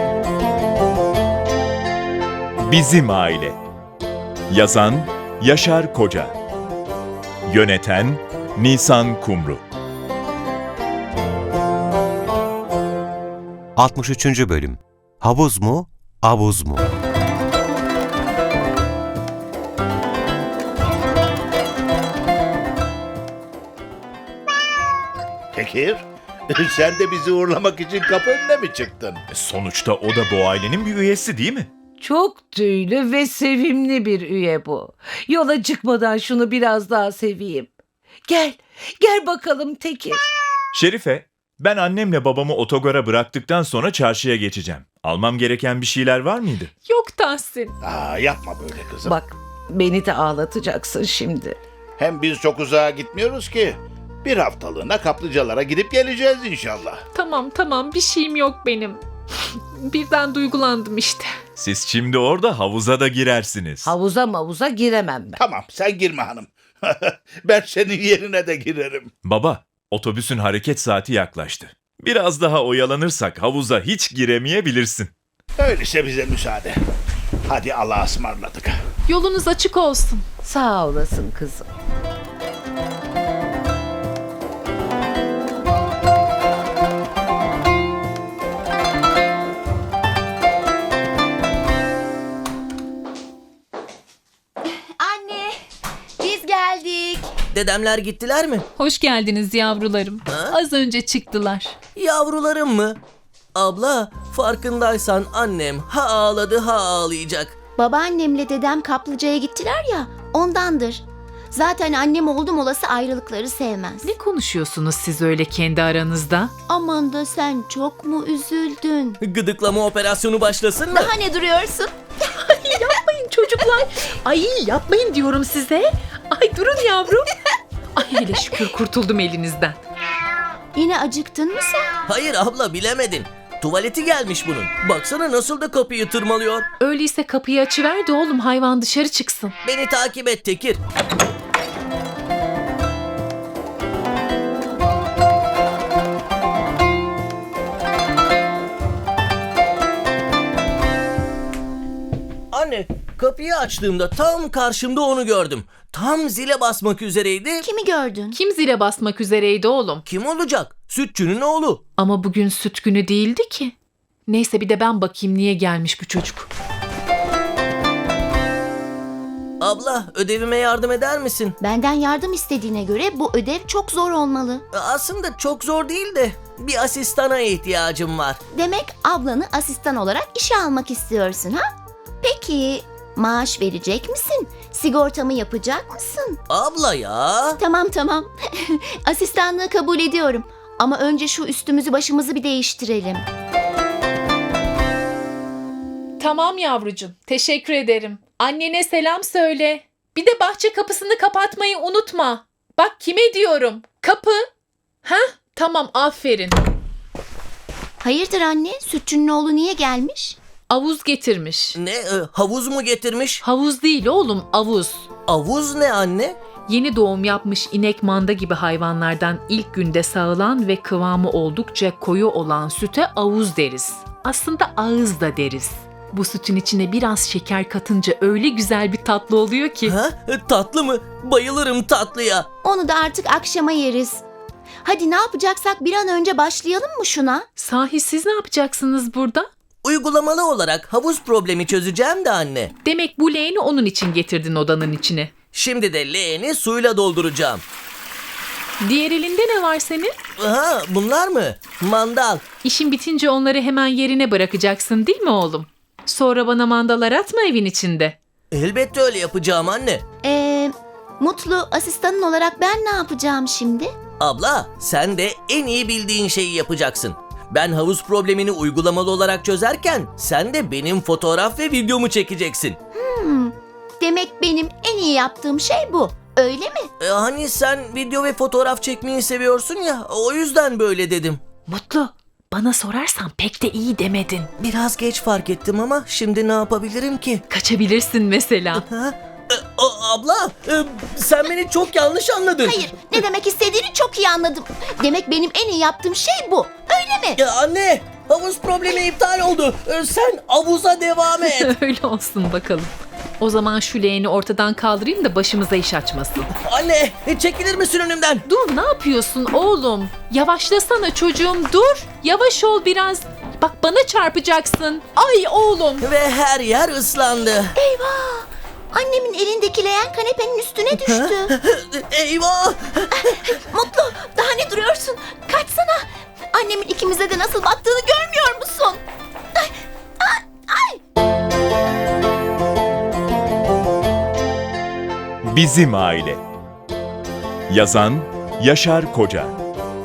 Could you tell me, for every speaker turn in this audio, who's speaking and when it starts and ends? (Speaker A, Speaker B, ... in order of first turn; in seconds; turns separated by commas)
Speaker A: 2.6-3.6, Speaker A: 4.5-6.3, Speaker A: 7.5-9.6, Speaker B: 13.8-16.9, Speaker C: 25.5-29.2, Speaker A: 29.3-31.7, Speaker D: 32.0-37.7, Speaker D: 38.3-40.2, Speaker A: 40.7-46.7, Speaker E: 46.9-47.7, Speaker C: 47.8-49.2, Speaker D: 49.1-51.6, Speaker C: 52.0-57.0, Speaker E: 57.1-59.0, Speaker E: 59.6-61.3, Speaker A: 61.5-63.9, Speaker D: 63.8-65.4, Speaker C: 65.4-69.1, Speaker A: 69.2-75.1, Speaker C: 75.6-76.8, Speaker C: 77.5-78.8, Speaker E: 79.0-80.2, Speaker D: 80.4-81.7, Speaker F: 94.8-95.6, Speaker F: 96.2-97.3, Speaker G: 97.5-98.7, Speaker E: 98.8-101.7, Speaker G: 100.3-100.6, Speaker G: 102.0-103.0, Speaker G: 103.5-107.5, Speaker F: 107.8-114.1, Speaker E: 114.1-116.5, Speaker F: 116.7-119.2, Speaker G: 119.2-121.1, Speaker F: 120.9-121.9, Speaker E: 122.4-127.2, Speaker E: 128.0-129.8, Speaker F: 130.7-132.0, Speaker G: 132.1-136.7, Speaker E: 136.8-139.5, Speaker G: 139.6-140.8, Speaker G: 152.5-157.6, Speaker F: 157.6-158.4, Speaker E: 158.4-160.0, Speaker G: 160.1-161.8, Speaker E: 162.0-163.7, Speaker E: 164.3-166.5, Speaker G: 169.6-171.6, Speaker F: 171.6-174.6, Speaker G: 174.7-178.4, Speaker F: 178.5-181.6, Speaker F: 182.2-186.4, Speaker G: 186.5-187.6, Speaker F: 187.6-193.2, Speaker E: 196.2-204.4, Speaker E: 205.0-206.6, Speaker F: 208.0-210.4, Speaker E: 210.7-211.8, Speaker G: 211.7-213.4, Speaker E: 213.4-215.1, Speaker G: 215.3-216.4, Speaker E: 216.7-229.9, Speaker G: 229.8-232.5, Speaker F: 232.6-234.2, Speaker F: 234.8-237.5, Speaker E: 237.6-239.5, Speaker G: 239.8-242.7, Speaker E: 242.8-245.3, Speaker G: 245.5-247.6, Speaker E: 248.8-250.1, Speaker G: 250.4-252.4, Speaker E: 252.6-258.1, Speaker G: 258.5-260.0, Speaker F: 260.2-263.9, Speaker G: 264.2-272.8, Speaker F: 272.9-276.9, Speaker G: 277.0-281.4, Speaker E: 281.7-284.5, Speaker G: 284.6-287.4, Speaker E: 287.5-288.8, Speaker G: 288.7-292.9, Speaker F: 292.6-297.4, Speaker G: 297.4-301.7, Speaker E: 301.5-306.5, Speaker G: 306.5-308.4, Speaker E: 308.4-316.0, Speaker G: 316.0-317.7, Speaker F: 317.8-321.5, Speaker G: 320.9-323.3, Speaker F: 323.2-329.0, Speaker F: 329.5-331.0, Speaker A: 335.4-336.4, Speaker A: 337.7-339.6